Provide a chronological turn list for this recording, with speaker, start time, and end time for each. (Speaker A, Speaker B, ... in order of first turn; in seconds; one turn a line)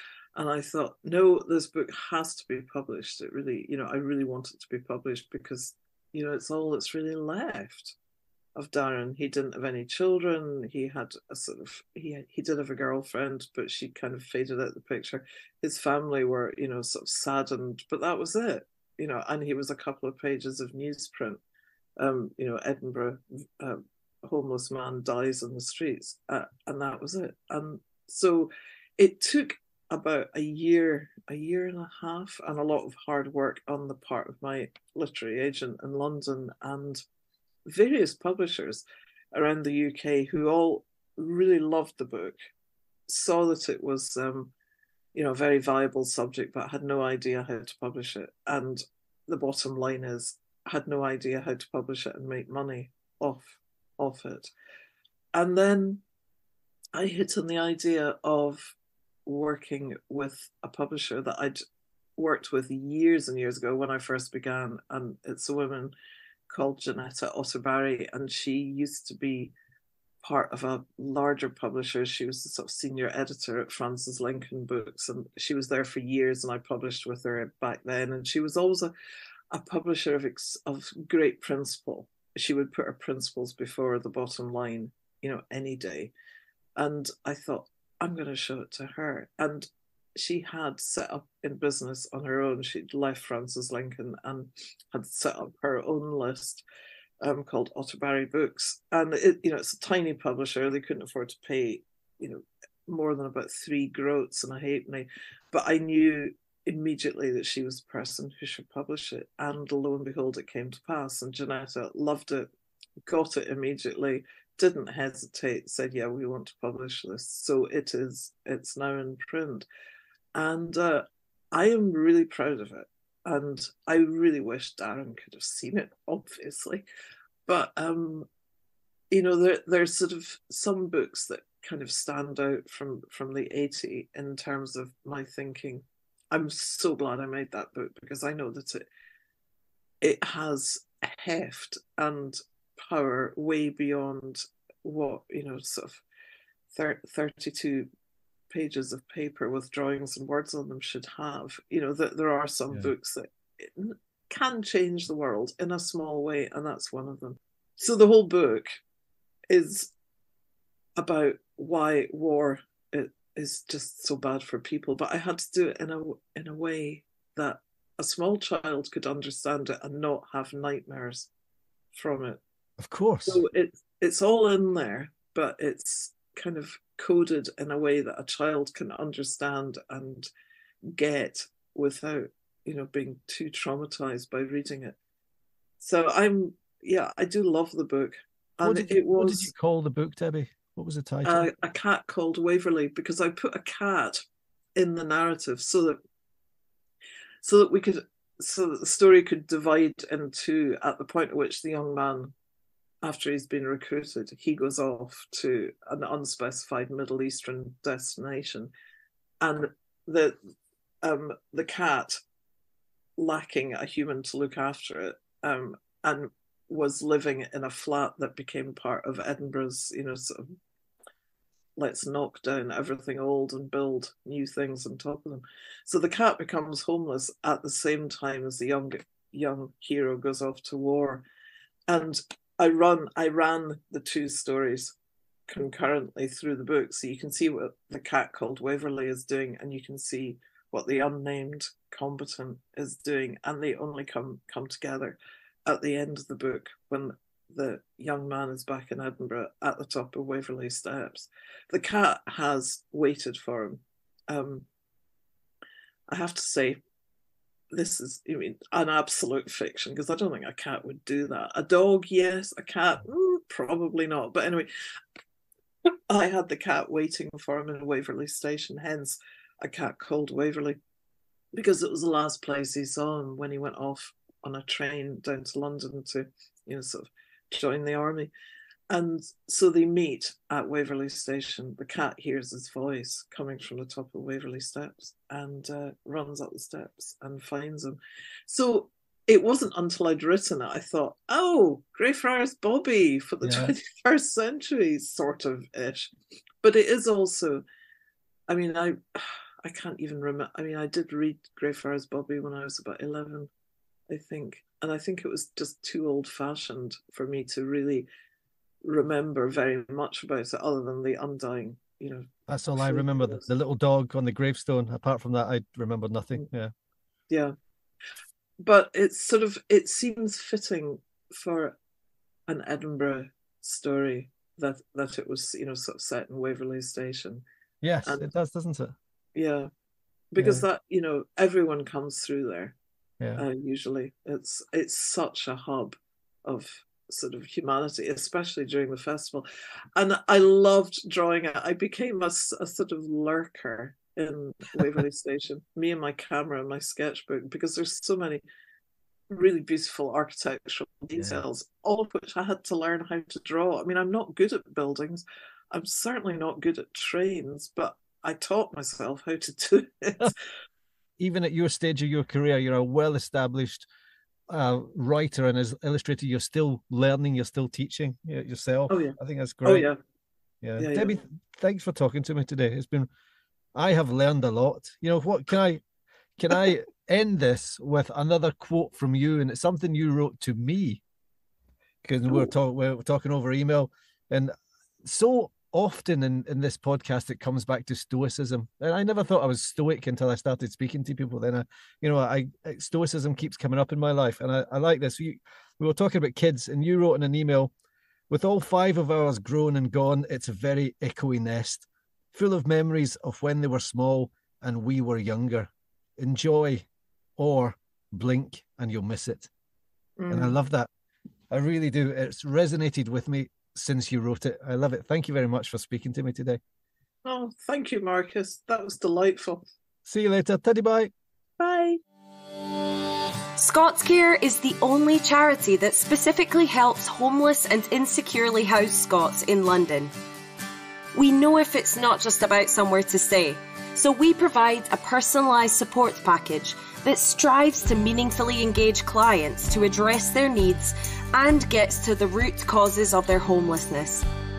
Speaker A: 0.3-8.0
Speaker A: 8.5-21.4
Speaker A: 22.0-37.0
Speaker A: 37.6-42.4
Speaker A: 43.1-44.5
Speaker A: 45.1-54.5
Speaker A: 55.3-56.0
Speaker A: 56.9-61.6
Speaker A: 62.2-65.9
Speaker A: 66.5-69.5
Speaker A: 70.2-78.9
Speaker A: 79.5-86.1
Speaker A: 86.8-96.6
Speaker A: 97.2-112.5
Speaker A: 113.1-119.7
Speaker A: 120.3-126.8
Speaker A: 127.5-128.3
Speaker A: 129.1-138.8
Speaker A: 140.0-146.0
Speaker A: 146.7-147.9
Speaker A: 148.5-158.7
Speaker A: 159.5-159.9
Speaker A: 161.0-171.3
Speaker A: 171.9-172.4
Speaker B: 172.8-173.4
Speaker A: 173.2-180.3
Speaker A: 180.9-185.0
Speaker A: 185.8-189.5
Speaker B: 188.6-191.5
Speaker A: 191.2-194.2
Speaker A: 194.8-196.0
Speaker A: 197.4-202.3
Speaker A: 203.0-208.7
Speaker A: 209.4-210.3
Speaker A: 211.0-212.2
Speaker A: 213.2-220.5
Speaker A: 221.8-231.2
Speaker A: 231.9-234.9
Speaker A: 235.5-254.7
Speaker A: 256.1-256.8
Speaker A: 257.7-264.7
Speaker A: 266.1-270.8
Speaker A: 271.5-278.3
Speaker A: 278.9-296.1
Speaker B: 293.4-293.7
Speaker A: 296.6-297.6
Speaker A: 298.5-303.5
Speaker A: 304.1-308.1
Speaker A: 308.8-313.4
Speaker B: 312.5-316.7
Speaker A: 317.3-317.5
Speaker A: 318.6-321.8
Speaker A: 322.5-327.4
Speaker B: 327.8-328.9
Speaker A: 329.3-329.7
Speaker A: 330.3-332.8
Speaker B: 330.4-330.6
Speaker A: 333.4-339.4
Speaker A: 339.9-348.4
Speaker A: 349.3-360.4
Speaker B: 351.2-351.4
Speaker B: 361.2-363.9
Speaker B: 364.5-369.9
Speaker A: 368.9-370.0
Speaker B: 370.6-373.1
Speaker A: 370.8-371.2
Speaker B: 373.7-375.8
Speaker B: 376.4-381.0
Speaker B: 382.0-384.5
Speaker B: 385.0-397.7
Speaker B: 398.3-406.9
Speaker B: 407.4-409.5
Speaker A: 410.2-410.6
Speaker B: 410.3-410.9
Speaker B: 411.5-416.6
Speaker A: 417.2-419.6
Speaker B: 420.0-421.1
Speaker A: 421.6-422.0
Speaker C: 423.6-430.1
Speaker C: 431.1-444.2